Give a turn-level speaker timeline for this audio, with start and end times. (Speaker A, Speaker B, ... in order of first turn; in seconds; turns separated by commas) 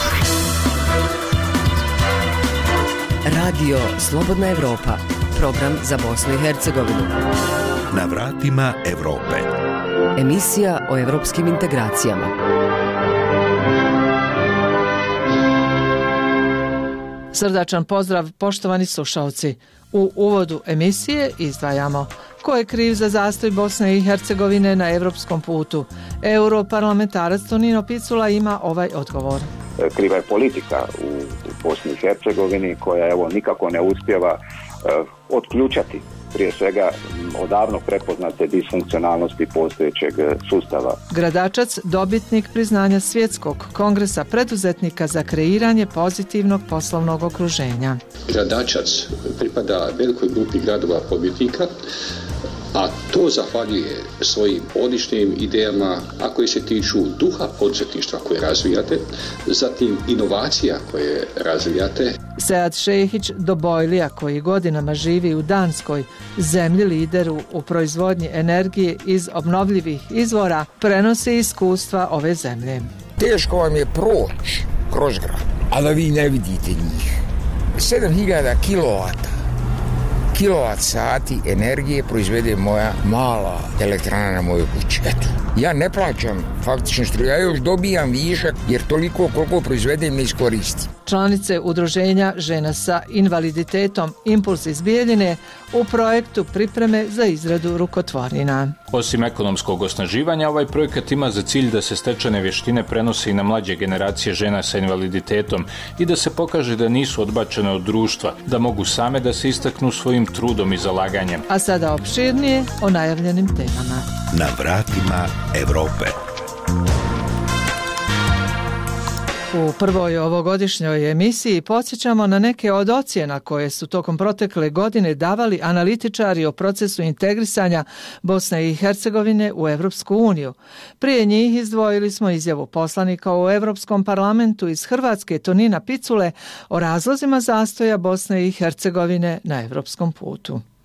Speaker A: 3.2-7.2, Speaker B: 7.9-9.5, Speaker A: 10.2-12.3, Speaker C: 17.3-29.5, Speaker D: 29.8-41.0, Speaker C: 41.1-48.0, Speaker E: 48.3-51.8, Speaker E: 52.7-62.1, Speaker C: 62.4-72.9, Speaker F: 73.2-77.2, Speaker F: 77.8-79.3, Speaker F: 80.3-90.9, Speaker C: 91.1-98.8, Speaker G: 98.9-111.5, Speaker C: 111.5-114.1, Speaker B: 114.3-116.2, Speaker C: 119.5-140.6